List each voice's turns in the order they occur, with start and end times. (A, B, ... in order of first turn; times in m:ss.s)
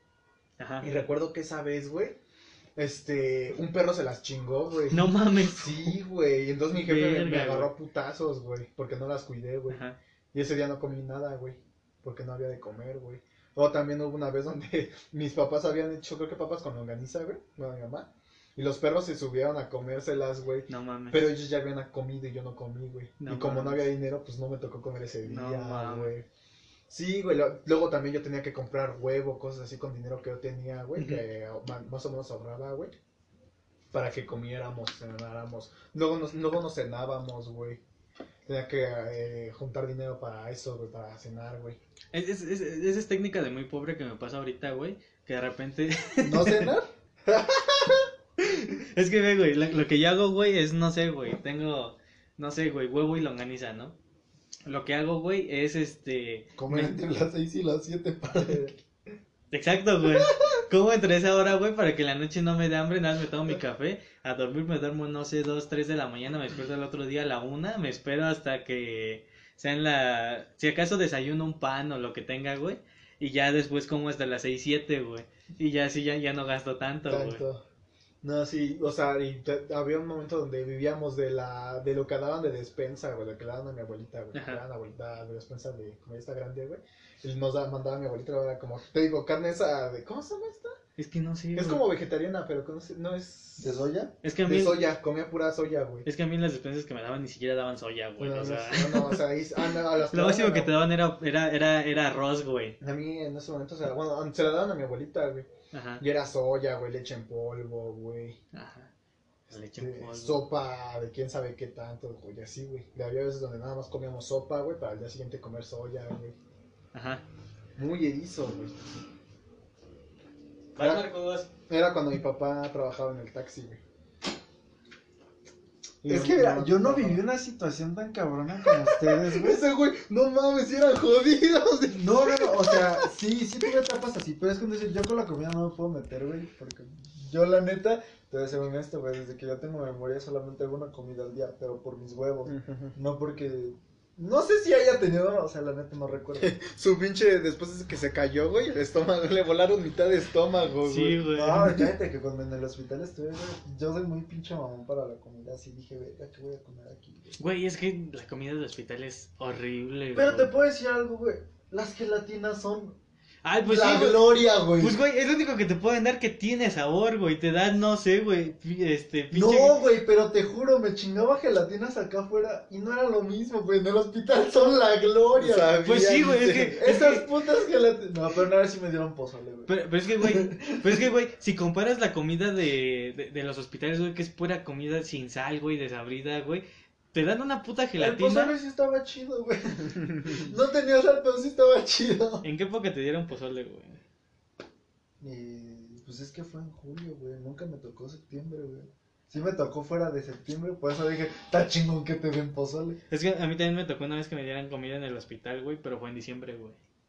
0:00.6-0:01.0 A
0:00.8-0:02.2 B
0:02.8-0:26.3 B
0:04.9-0:05.9 A
0:06.8-0:07.7 A
0:09.7-0:10.0 A
0:20.7-0:21.3 A
0:23.2-0:23.9 A
0:25.2-0:26.1 A
0:26.9-0:32.9 B
0:31.0-0:31.2 A
0:33.9-0:37.8 B
0:38.4-0:41.8 B
0:42.1-0:46.7 A
0:46.2-0:46.9 C
0:47.2-0:48.1 B
0:48.4-0:54.0 A
0:54.7-0:57.0 A
0:56.6-0:58.8 C
0:59.5-1:17.4 A
1:17.1-1:17.6 B
1:18.2-1:30.8 B
1:24.3-1:24.6 A
1:31.0-1:31.8 A
1:31.5-1:33.9 B
1:33.6-1:34.1 C
1:34.2-1:34.9 A
1:34.4-1:36.1 B
1:36.0-1:39.2 A
1:38.2-1:40.7 B
1:40.1-1:42.8 A
1:42.8-1:48.4 B
1:45.7-1:46.0 A
1:48.5-1:48.9 A
1:49.5-1:50.4 A
1:49.8-1:56.4 B
1:56.9-1:57.2 A
1:57.8-1:58.8 B
2:00.7-2:01.5 A
2:00.8-2:01.1 B
2:01.7-2:03.8 B
2:06.0-2:07.2 B
2:06.0-2:09.6 C
2:08.6-2:13.1 B
2:11.9-2:26.5 C
2:22.4-2:23.0 B
2:26.4-2:31.2 B
2:30.8-2:31.9 A
2:31.2-2:37.4 C
2:37.4-2:40.5 A
2:40.1-2:43.0 C
2:43.4-2:44.2 A
2:43.6-2:45.0 C
2:44.8-2:49.8 A
2:49.3-3:01.0 C
2:55.3-2:55.7 B
2:55.8-2:57.3 A
2:59.7-3:08.5 A
3:08.0-3:12.4 C
3:10.0-3:10.3 B
3:12.4-3:14.0 A
3:15.2-3:23.0 C
3:23.1-3:26.8 A